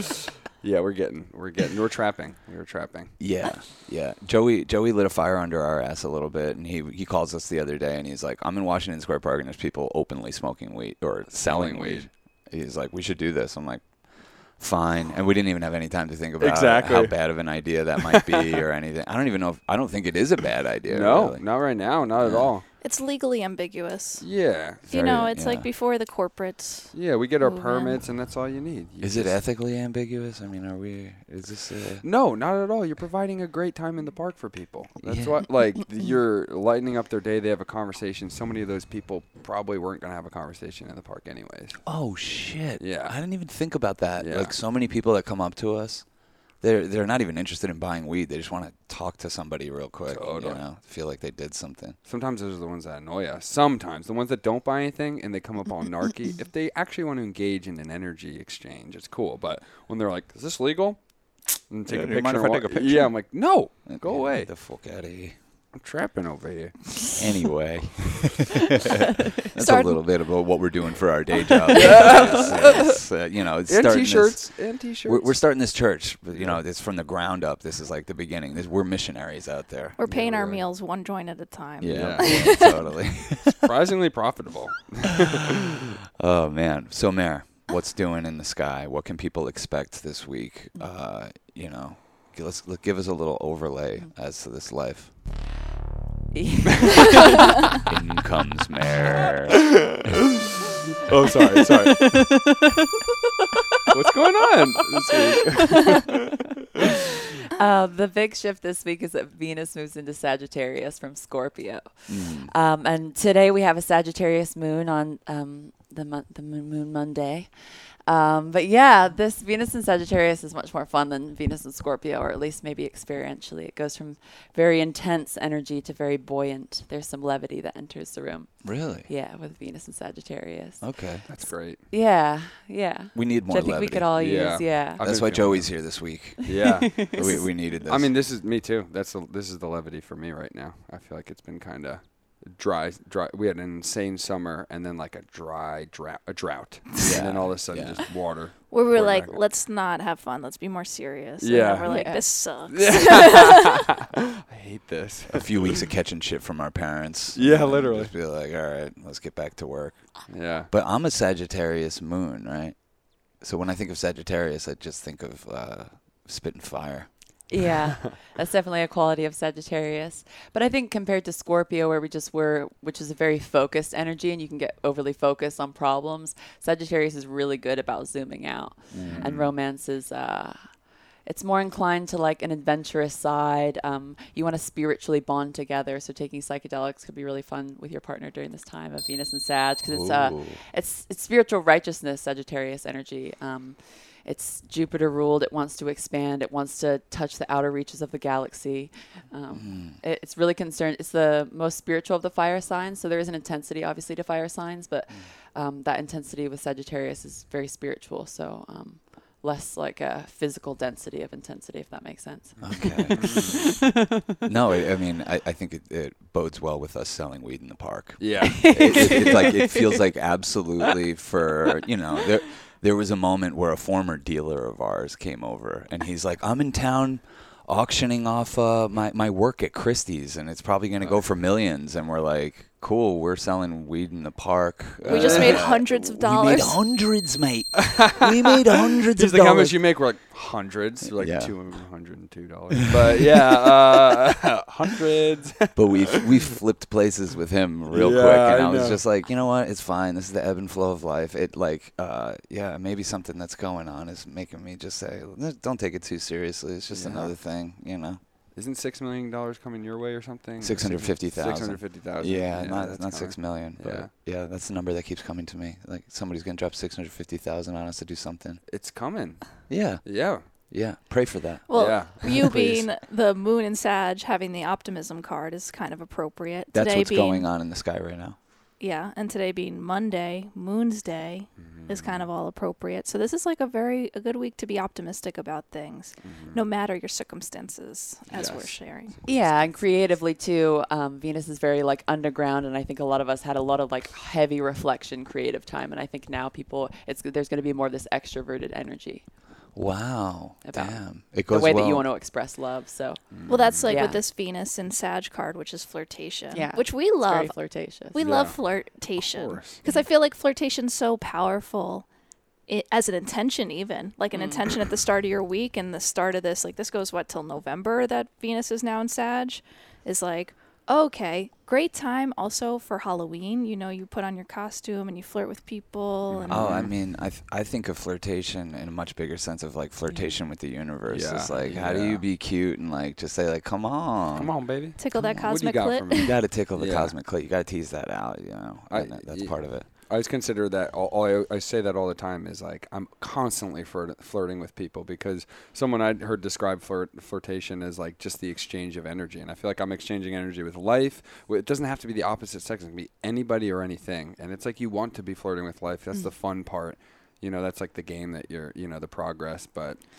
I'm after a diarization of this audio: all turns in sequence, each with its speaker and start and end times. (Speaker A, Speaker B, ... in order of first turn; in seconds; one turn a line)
Speaker A: 0.6-3.5
Speaker B: 3.2-22.5
Speaker A: 11.3-12.1
Speaker A: 16.4-17.3
Speaker A: 20.9-22.6
Speaker C: 22.8-28.0
Speaker A: 24.2-24.9
Speaker B: 24.9-25.7
Speaker A: 26.9-29.4
Speaker B: 29.0-32.0
Speaker A: 32.0-42.1
Speaker B: 35.0-35.4
Speaker B: 41.8-52.0
Speaker A: 42.8-43.6
Speaker A: 44.1-44.6
Speaker A: 50.0-50.7
Speaker A: 52.0-64.5
Speaker B: 61.9-65.4
Speaker A: 65.7-67.2
Speaker B: 67.2-68.5
Speaker B: 69.4-80.0
Speaker C: 69.5-70.7
Speaker A: 71.7-75.7
Speaker A: 76.3-76.6
Speaker C: 80.0-82.9
Speaker A: 80.0-80.7
Speaker B: 81.8-83.5
Speaker A: 81.9-82.5
Speaker A: 83.6-85.6
Speaker B: 86.2-95.1
Speaker D: 96.3-97.3
Speaker B: 97.9-99.7
Speaker A: 101.1-102.2
Speaker D: 101.7-102.7
Speaker A: 103.9-106.2
Speaker D: 107.5-135.0
Speaker B: 112.1-112.5
Speaker B: 128.6-129.1
Speaker B: 130.8-131.3
Speaker A: 131.3-131.9
Speaker B: 133.1-138.1
Speaker A: 134.2-149.5
Speaker D: 137.0-137.5
Speaker B: 147.0-148.2
Speaker C: 148.7-153.5
Speaker A: 151.4-153.6
Speaker D: 151.8-152.4
Speaker A: 154.5-155.8
Speaker B: 155.3-167.5
Speaker A: 157.3-158.1
Speaker A: 160.3-160.7
Speaker D: 167.5-213.6
Speaker B: 178.9-179.5
Speaker A: 179.0-179.3
Speaker B: 189.8-190.6
Speaker B: 199.5-200.0
Speaker A: 212.6-213.6
Speaker B: 212.6-213.4
Speaker B: 214.4-239.8
Speaker A: 218.2-219.6
Speaker D: 218.6-220.0
Speaker A: 231.0-231.3
Speaker A: 235.0-235.8
Speaker C: 235.1-236.8
Speaker A: 239.1-246.0
Speaker B: 241.0-241.8
Speaker B: 245.7-258.2
Speaker A: 247.9-249.0
Speaker A: 256.9-257.4
Speaker A: 258.5-264.1
Speaker B: 260.6-268.8
Speaker A: 268.6-270.4
Speaker B: 269.7-272.3
Speaker C: 271.7-277.5
Speaker A: 271.7-272.9
Speaker B: 276.7-278.4
Speaker C: 278.8-289.7
Speaker A: 281.6-282.3
Speaker A: 286.2-286.6
Speaker A: 288.3-289.7
Speaker D: 289.2-299.9
Speaker B: 299.7-302.1
Speaker D: 300.6-304.2
Speaker A: 303.3-303.9
Speaker C: 303.5-312.1
Speaker D: 306.5-308.1
Speaker A: 308.2-309.8
Speaker C: 312.6-326.7
Speaker D: 314.3-314.6
Speaker A: 326.3-326.9
Speaker B: 326.5-339.9
Speaker D: 330.1-330.4
Speaker A: 331.1-332.2
Speaker A: 334.3-337.1
Speaker C: 335.0-336.3
Speaker A: 338.9-360.1